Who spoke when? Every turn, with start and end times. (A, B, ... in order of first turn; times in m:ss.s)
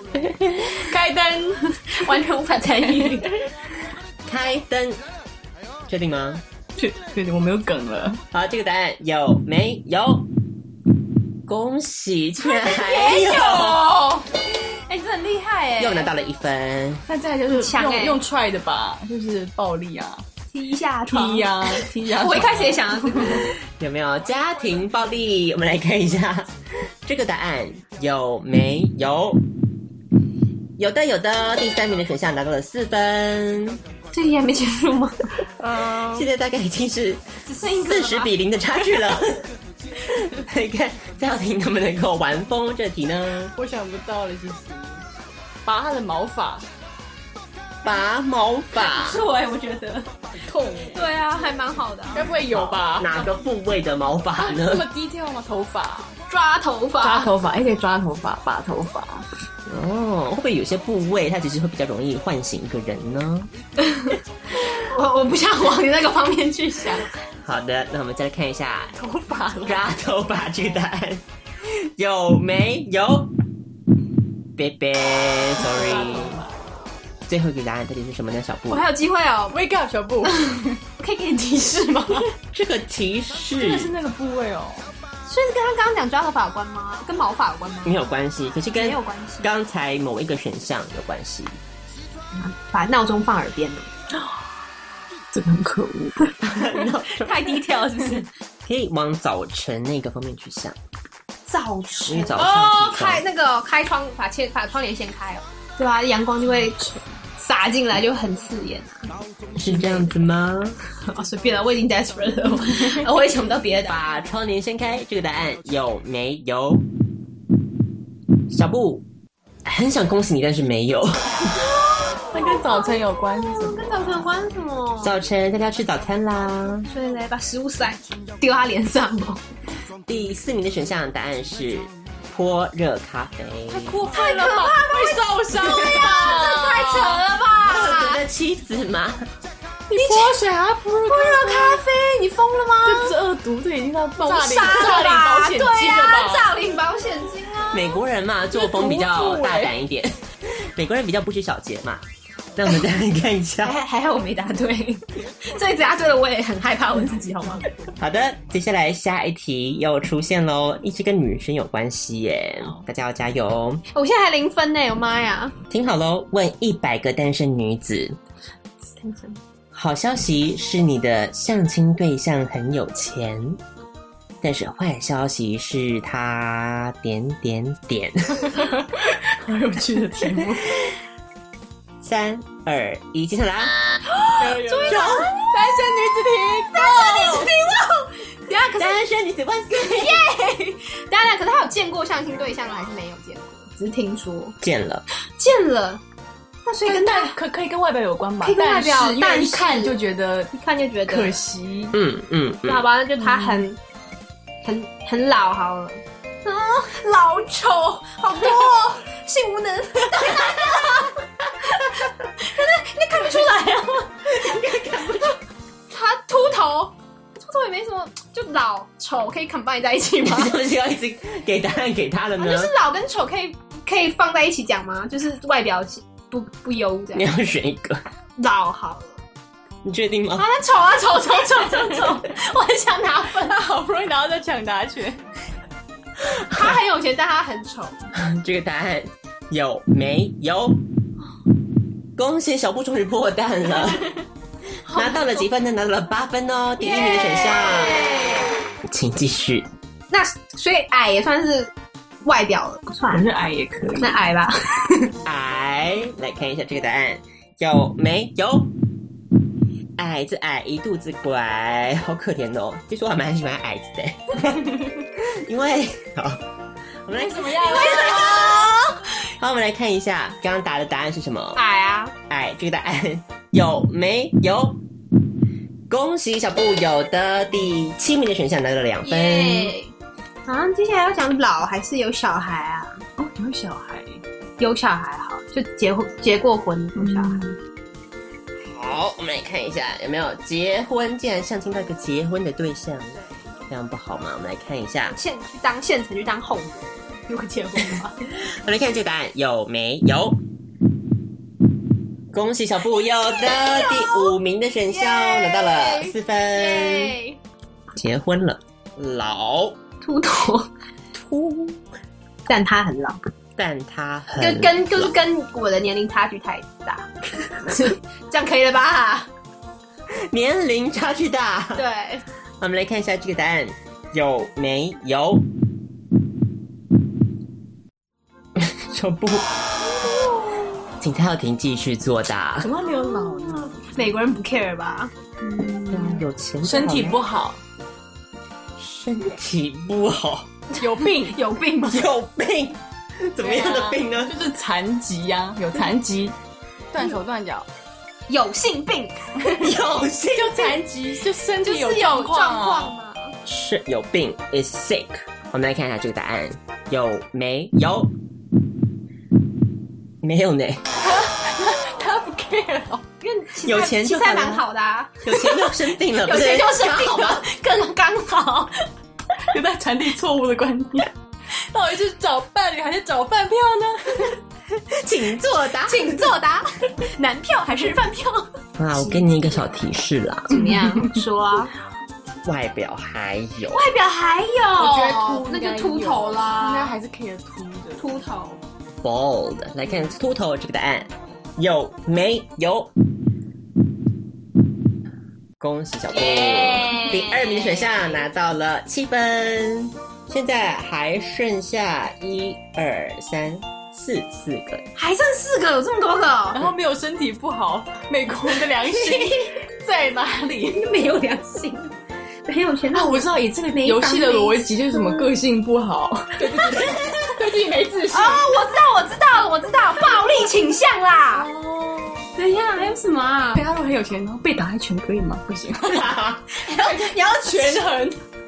0:00.2-0:00.6 A
0:00.8-0:01.7 B
0:01.8-0:03.3 C
0:02.9-0:03.3 B
0:04.2-0:05.0 A
0:05.9-0:06.4 A
0:06.8-0:08.2 B
0:08.3-0:10.3 A
0:11.5-0:13.8 A
0:12.4-0:14.1 C
0:14.7-0:16.1 C
0:15.8-0:17.0 A
0:17.1-0:20.2 B
0:17.5-0:18.2 C
0:20.5-0:23.5 C
0:21.1-0:23.4 B
0:23.8-0:26.5 A
0:27.0-0:29.4 A
0:30.8-0:33.8 A
0:34.1-0:35.3 C
0:35.6-0:36.3 B
0:36.1-0:39.5 A
0:37.4-0:38.3 C
0:40.1-0:43.5 A
0:43.6-0:45.0 B
0:45.6-0:46.6 B
0:47.8-0:49.2 A
0:48.7-0:50.1 C
0:50.4-0:51.1 B
0:50.9-0:52.3 C
0:52.1-0:53.3 B
0:52.5-0:54.9 A
0:54.4-0:56.1 B
0:56.3-0:57.3 C
0:57.0-0:59.2 B
0:59.7-1:03.5 A
1:03.8-1:07.1 C
1:07.4-1:09.0 A
1:09.0-1:09.8 B
1:09.6-1:13.3 A
1:14.6-1:16.4 A
1:15.6-1:16.5 B
1:17.3-1:18.9 A
1:18.7-1:19.6 C
1:19.5-1:20.8 B
1:20.2-1:22.3 C
1:22.5-1:23.9 A
1:23.5-1:24.9 B
1:25.3-1:28.0 C
1:27.8-1:31.6 A
1:28.7-1:29.5 C
1:32.4-1:33.9 C
1:35.3-1:36.3 B
1:36.4-1:37.3 A
1:36.7-1:38.3 C
1:38.6-1:40.8 A
1:41.4-1:49.1 C
1:42.1-1:43.2 A
1:49.6-1:50.8 A
1:49.6-1:50.1 C
1:51.0-1:54.0 C
1:53.9-1:56.9 A
1:58.5-1:59.0 A
1:59.6-2:01.4 A
2:01.5-2:05.1 C
2:02.3-2:04.3 B
2:05.0-2:06.9 A
2:06.9-2:09.4 C
2:10.1-2:14.0 A
2:13.7-2:17.2 B
2:14.0-2:18.2 C
2:17.6-2:19.3 A
2:19.9-2:21.8 B
2:19.9-2:20.4 C
2:21.0-2:23.2 C
2:22.8-2:26.5 B
2:24.2-2:28.0 C
2:27.7-2:33.8 A
2:28.5-2:29.7 B
2:33.6-2:37.7 C
2:38.0-2:43.8 A
2:43.9-2:45.6 C
2:45.7-2:48.2 A
2:48.9-2:49.4 C
2:49.7-2:53.6 A
2:54.4-2:58.7 A
2:58.6-3:00.7 B
3:02.0-3:03.8 A
3:04.4-3:07.5 B
3:04.4-3:05.9 C
3:04.8-3:05.3 A
3:06.7-3:09.0 C
3:08.8-3:10.2 A
3:09.7-3:14.6 C
3:14.6-3:15.0 A
3:15.4-3:16.0 C
3:16.6-3:17.4 C
3:16.8-3:20.5 B
3:18.4-3:20.0 C
3:20.5-3:21.4 C
3:21.1-3:22.0 B
3:21.9-3:22.8 A
3:22.6-3:23.8 C
3:23.2-3:23.7 B
3:24.6-3:35.3 C
3:34.3-3:35.4 A
3:35.9-3:40.6 C
3:40.2-3:42.7 A
3:42.4-3:47.3 C
3:47.1-3:48.0 A
3:48.4-3:49.2 C
3:49.8-3:50.5 A
3:50.4-3:53.6 C
3:51.5-3:52.2 B
3:53.3-3:55.2 B
3:56.4-3:58.0 C
3:58.1-4:00.8 A
4:02.2-4:04.1 A
4:04.8-4:05.5 C
4:04.9-4:08.1 A
4:06.8-4:08.6 C
4:08.8-4:09.7 A
4:10.1-4:11.7 C
4:12.2-4:13.3 C
4:13.1-4:14.2 B
4:14.0-4:15.1 C
4:15.2-4:18.7 A
4:20.0-4:26.4 A
4:27.0-4:28.8 A
4:27.1-4:28.5 B
4:27.6-4:29.0 C
4:29.3-4:31.6 A
4:31.6-4:32.1 C
4:32.3-4:34.8 A
4:35.9-4:39.7 A
4:39.0-4:39.9 C
4:40.4-4:43.0 C
4:43.2-4:44.2 B
4:44.6-4:47.4 C
4:47.0-4:47.6 B
4:48.6-4:55.2 A
4:55.1-4:58.2 C
4:58.3-5:00.4 A
5:02.3-5:07.1 A
5:03.3-5:04.3 C
5:04.9-5:07.4 C
5:08.0-5:09.8 A
5:10.0-5:10.7 C
5:11.1-5:11.8 A
5:12.4-5:13.2 C
5:13.6-5:15.1 A
5:14.4-5:19.3 C
5:20.1-5:21.8 A
5:21.7-5:22.2 C
5:22.6-5:25.5 A
5:28.6-5:29.5 A
5:29.8-5:30.8 C
5:31.0-5:32.7 A
5:32.6-5:33.9 B
5:32.8-5:35.1 C
5:35.4-5:37.6 B
5:35.9-5:37.2 A
5:38.8-5:40.5 A
5:40.7-5:42.1 C
5:40.8-5:41.4 B
5:41.9-5:44.3 A
5:43.4-5:46.4 B
5:46.9-5:47.7 B
5:48.3-5:49.5 C
5:49.4-5:49.7 B
5:49.6-5:50.7 A
5:50.3-5:52.9 B
5:51.6-5:53.4 C
5:53.4-5:58.1 A
6:00.2-6:00.8 A
6:01.0-6:03.0 B
6:03.2-6:08.8 C
6:03.6-6:04.6 A
6:05.2-6:07.4 A
6:09.5-6:14.4 B
6:14.9-6:16.2 A
6:15.8-6:19.6 C
6:18.8-6:20.7 A
6:20.5-6:21.7 C
6:22.4-6:23.9 A
6:23.7-6:27.0 C
6:24.8-6:28.1 B
6:28.0-6:28.6 C
6:29.0-6:32.9 A
6:35.6-6:44.8 A
6:36.1-6:38.2 C
6:45.0-6:46.6 C
6:46.5-6:50.8 B
6:48.8-6:49.6 C
6:50.6-6:55.3 C
6:52.9-6:58.6 B
6:56.4-6:57.3 C
6:58.1-7:01.5 C
7:01.3-7:02.3 B
7:02.3-7:03.6 C
7:03.5-7:06.1 B
7:05.8-7:06.5 A
7:06.5-7:07.9 C
7:06.7-7:08.2 B